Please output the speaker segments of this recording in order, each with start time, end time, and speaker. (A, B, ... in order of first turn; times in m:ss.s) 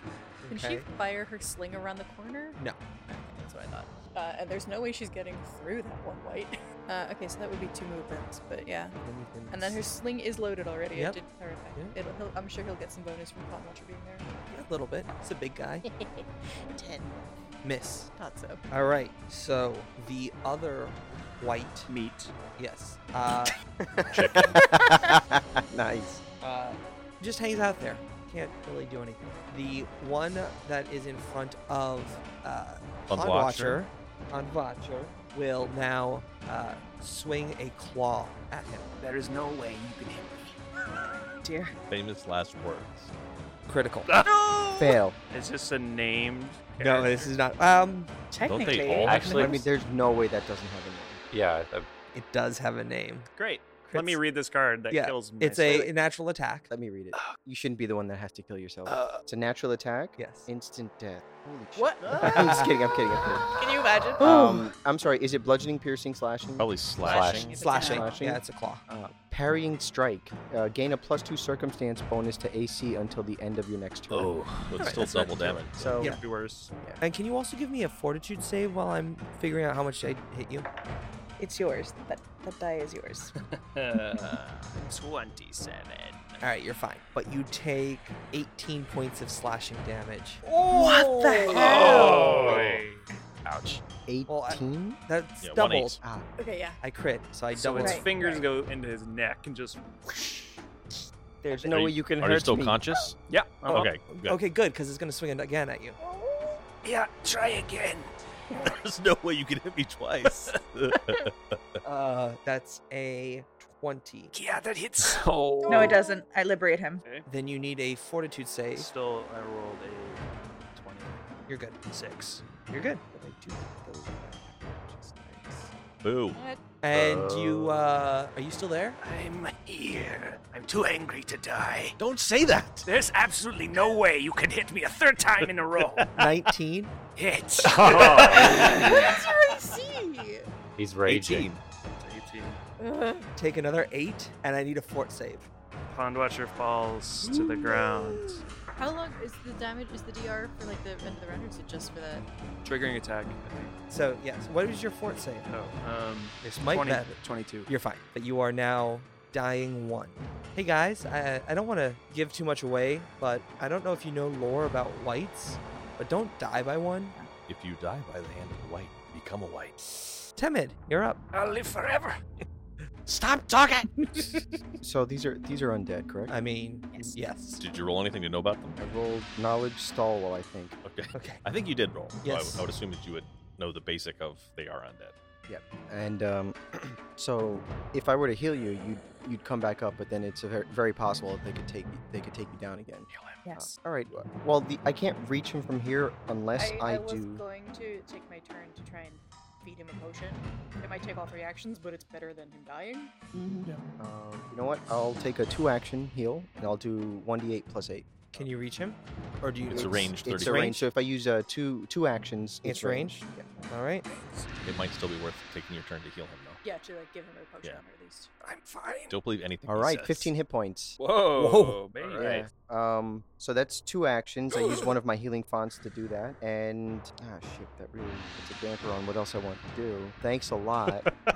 0:00.4-0:00.8 A
0:00.5-0:09.0 B
0:09.0-0:09.9 A
0:09.5-0:14.3 B
0:10.9-0:11.2 A
0:14.5-0:15.8 A
0:15.8-0:17.4 B
0:17.6-0:18.1 A
0:18.1-0:18.6 B
0:18.7-0:21.9 A
0:21.9-0:22.3 C
0:22.6-0:23.5 A
0:23.9-0:26.2 D
0:24.1-0:24.6 E
0:26.4-0:38.9 A
0:33.1-0:33.8 F
0:39.0-0:40.6 C
0:41.4-0:41.7 G
0:41.9-0:43.1 F
0:43.7-0:44.1 A
0:44.1-0:47.3 C
0:44.8-0:45.2 D
0:46.8-0:48.1 A
0:48.3-0:49.6 G
0:48.4-0:49.3 F
0:49.0-0:49.6 E
0:49.2-0:51.2 D
0:51.3-0:51.9 E
0:52.1-0:53.3 A
0:53.3-0:55.9 C
0:53.9-0:54.2 A
0:54.9-0:56.7 A
0:56.7-1:03.4 D
0:58.8-0:59.2 C
1:00.2-1:00.5 A
1:01.8-1:02.1 B
1:02.2-1:02.7 A
1:03.6-1:04.6 B
1:04.2-1:14.4 D
1:06.6-1:07.4 F
1:07.0-1:08.2 B
1:07.1-1:07.6 E
1:07.6-1:08.0 G
1:07.6-1:08.8 A
1:14.1-1:14.9 E
1:14.7-1:16.0 F
1:14.8-1:15.2 A
1:15.8-1:16.1 D
1:15.8-1:16.7 C
1:17.0-1:20.7 A
1:21.4-1:23.3 G
1:23.4-1:26.4 C
1:26.4-1:30.4 A
1:30.4-1:33.0 C
1:30.7-1:31.9 G
1:31.5-1:32.4 A
1:31.7-1:32.8 E
1:34.0-1:35.0 D
1:34.3-1:36.0 A
1:35.4-1:36.0 F
1:36.4-1:36.8 B
1:36.8-1:38.4 A
1:37.5-1:40.6 C
1:41.4-1:41.7 A
1:41.5-1:42.8 D
1:41.7-1:43.2 F
1:43.3-1:43.9 C
1:43.6-1:46.0 A
1:43.7-1:44.4 F
1:46.0-1:46.6 B
1:46.8-1:48.6 C
1:48.5-1:51.6 F
1:51.8-1:54.3 A
1:54.3-1:56.0 C
1:55.0-1:55.9 E
1:55.7-1:57.0 G
1:57.2-1:58.9 A
1:58.7-2:01.3 C
2:01.5-2:01.8 A
2:01.9-2:02.5 C
2:02.6-2:05.7 A
2:06.0-2:06.4 F
2:06.3-2:06.6 B
2:06.8-2:09.0 A
2:06.9-2:07.9 E
2:09.0-2:12.0 C
2:12.0-2:12.9 F
2:12.8-2:16.1 C
2:15.4-2:16.1 F
2:16.2-2:16.9 A
2:17.2-2:19.2 C
2:17.6-2:18.6 E
2:18.3-2:20.5 B
2:20.8-2:21.5 E
2:21.0-2:21.6 F
2:22.0-2:22.6 C
2:22.8-2:23.3 B
2:23.4-2:25.5 A
2:25.9-2:28.4 C
2:28.8-2:32.2 B
2:32.6-2:33.8 C
2:33.9-2:35.4 A
2:35.4-2:37.7 C
2:36.4-2:47.1 A
2:47.5-2:49.7 F
2:50.4-2:51.2 A
2:51.3-2:52.2 C
2:53.1-2:54.4 F
2:54.8-2:56.3 D
2:56.3-2:57.6 A
2:57.6-2:58.8 F
2:58.8-3:00.8 D
3:00.8-3:05.1 F
3:01.1-3:01.4 A
3:02.2-3:02.6 A
3:05.5-3:17.4 D
3:13.1-3:13.4 F
3:13.4-3:13.7 G
3:16.6-3:23.1 B
3:23.3-3:23.7 G
3:24.0-3:28.3 D
3:28.3-3:30.8 A
3:29.7-3:30.8 F
3:29.7-3:33.5 D
3:32.6-3:34.0 A
3:34.1-3:34.5 C
3:34.6-3:36.6 F
3:36.6-3:38.3 B
3:38.4-3:39.2 C
3:39.1-3:40.3 F
3:39.6-3:41.0 D
3:41.0-3:42.5 C
3:41.4-3:41.8 A
3:42.0-3:42.2 F
3:42.1-3:51.0 D
3:44.5-3:44.9 C